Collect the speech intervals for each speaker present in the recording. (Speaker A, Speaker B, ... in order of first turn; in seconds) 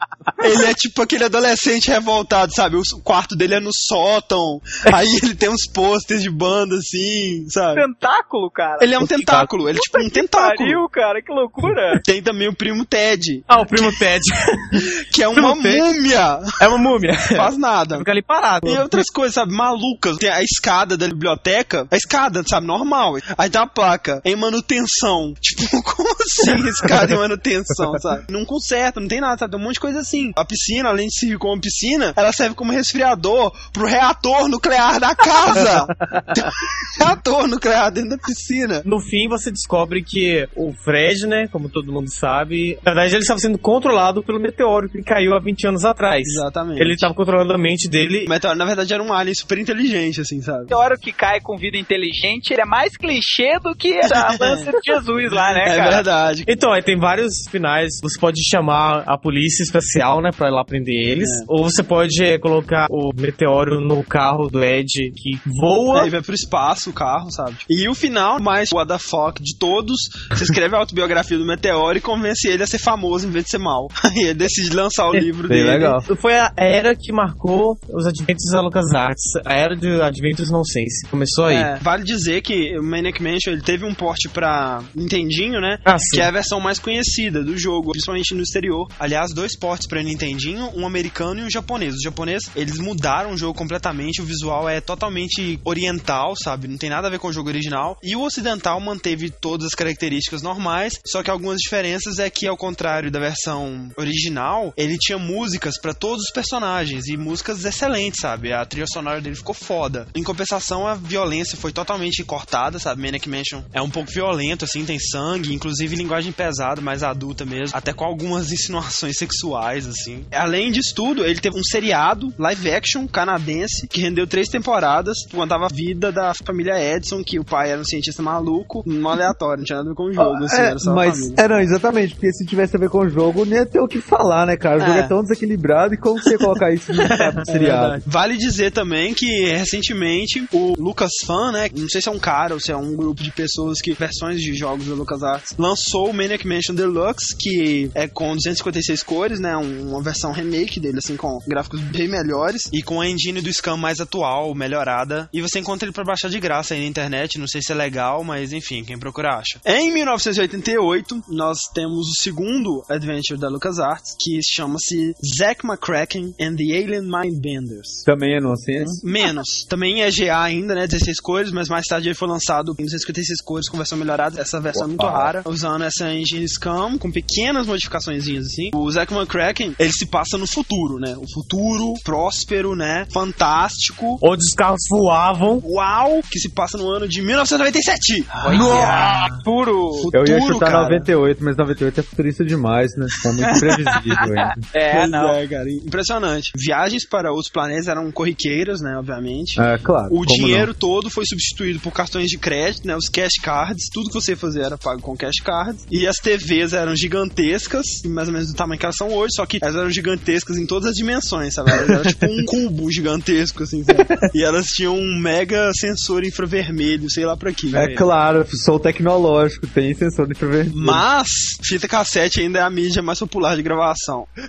Speaker A: 0.4-7.8, 8.8-10.8, 12.0-14.0, 15.0-16.5, 17.3-18.1, 18.6-38.9, 46.2-47.1, 48.2-50.7, 54.1-54.7, 55.3-56.5, 61.2-61.5, 65.9-76.0, 81.5-131.4, 134.8-135.1, 137.5-168.1, 168.8-184.2, 185.6-189.3, 190.0-191.1, 194.9-217.9, 220.7-224.3
Speaker B: 7.7-9.0, 9.7-12.0, 50.7-56.0, 188.4-190.1, 193.5-195.4
Speaker C: 13.5-15.8, 16.6-19.0, 38.8-48.3, 56.5-66.1, 76.1-81.7, 85.8-86.3, 137.1-138.0, 184.2-185.6, 217.7-218.0
Speaker D: 35.6-36.5, 75.5-76.0, 130.2-138.0, 168.1-169.0, 174.7-175.3, 188.5-188.9, 190.1-194.6, 199.6-200.7, 211.8-212.4, 213.9-214.2, 217.7-221.0